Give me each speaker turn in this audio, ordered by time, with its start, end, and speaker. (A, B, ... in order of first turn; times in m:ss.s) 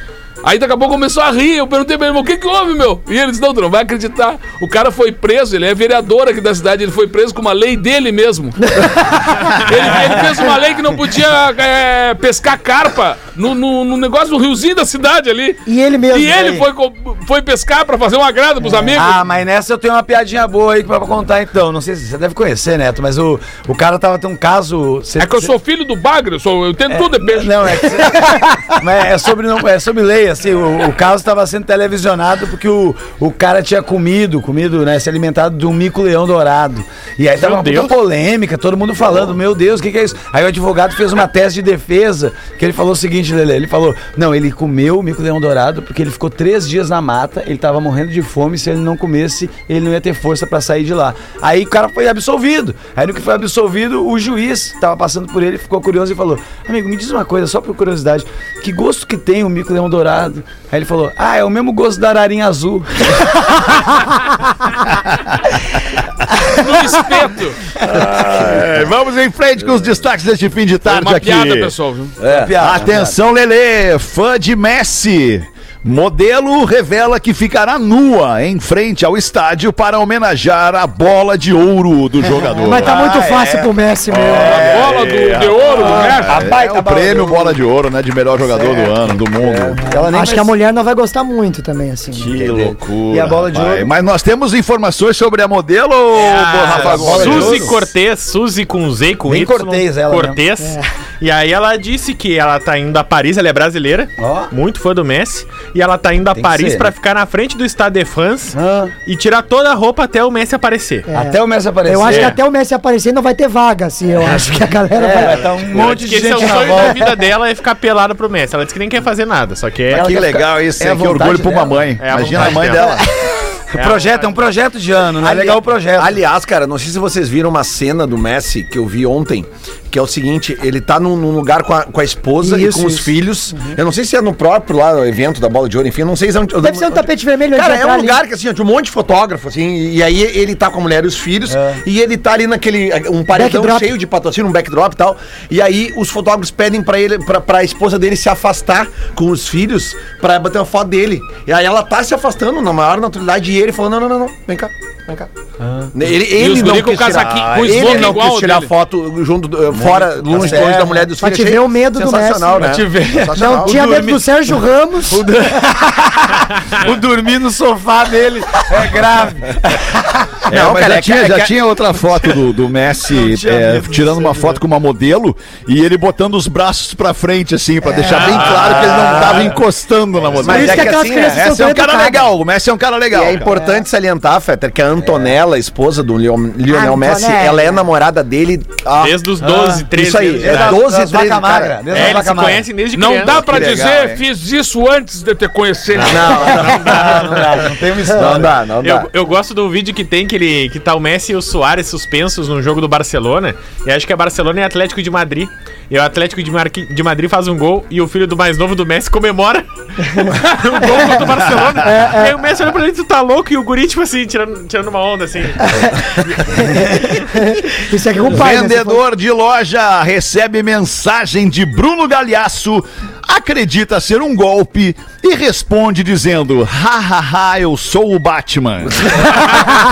0:00.4-0:19.2 A
0:15.6-0:16.6 B
0:18.9-0:25.5 C
0:25.2-0:28.0 A
0:26.9-1:03.4 C
0:37.4-0:37.9 D
1:06.5-1:07.6 A
1:07.8-1:11.7 E
1:10.8-1:12.2 A
1:12.2-1:12.5 F
1:12.2-1:13.2 C
1:12.6-1:23.5 E
1:22.6-1:24.6 B
1:22.6-1:23.6 C
1:24.1-1:29.8 E
1:24.3-1:24.8 C
1:24.5-1:26.4 A
1:25.8-1:27.6 C
1:28.4-1:29.0 C
1:29.4-1:29.8 F
1:29.8-1:30.5 C
1:30.1-1:32.3 B
1:32.1-1:37.8 E
1:32.3-1:32.7 F
1:33.1-1:33.9 C
1:36.1-1:51.1 D
1:36.6-1:37.8 C
1:39.3-1:40.4 C
1:40.6-1:40.8 B
1:44.2-1:44.5 C
1:46.3-1:46.9 C
1:48.5-1:48.9 C
1:51.1-1:55.5 B
1:51.1-1:52.4 C
1:52.1-1:52.3 D
1:54.9-1:57.1 C
1:55.7-2:00.1 D
1:59.9-2:02.6 C
1:59.9-2:03.1 E
2:02.0-2:03.0 D
2:03.7-2:06.2 C
2:03.8-2:04.3 D
2:05.2-2:35.3 F
2:12.4-2:13.1 B
2:16.6-2:18.2 B
2:21.5-2:21.8 C
2:23.3-2:23.9 B
2:35.6-2:35.9 C
2:35.9-2:43.9 F
2:36.3-2:38.7 A
2:39.7-2:41.1 C
2:41.2-2:42.7 B
2:42.5-2:44.5 C
2:43.3-2:45.2 B
2:45.0-2:50.5 C
2:50.5-2:51.5 F
2:50.5-3:03.5 E
2:53.1-2:54.6 C
2:58.1-2:59.4 D
2:58.2-2:59.5 C
2:58.6-2:59.4 F
3:00.3-3:01.5 F
3:00.4-3:02.3 B
3:03.1-3:09.2 F
3:03.5-3:03.8 B
3:06.7-3:07.8 B
3:09.0-3:10.8 D
3:09.4-3:09.8 C
3:09.9-3:11.9 F
3:10.4-3:12.7 C
3:11.9-3:13.7 D
3:12.9-3:16.5 A
3:13.2-3:14.2 E
3:16.0-3:19.1 F
3:16.3-3:18.6 C
3:18.8-3:36.4 D
3:31.8-3:32.3 B
3:35.7-3:39.0 B
3:38.2-3:49.4 E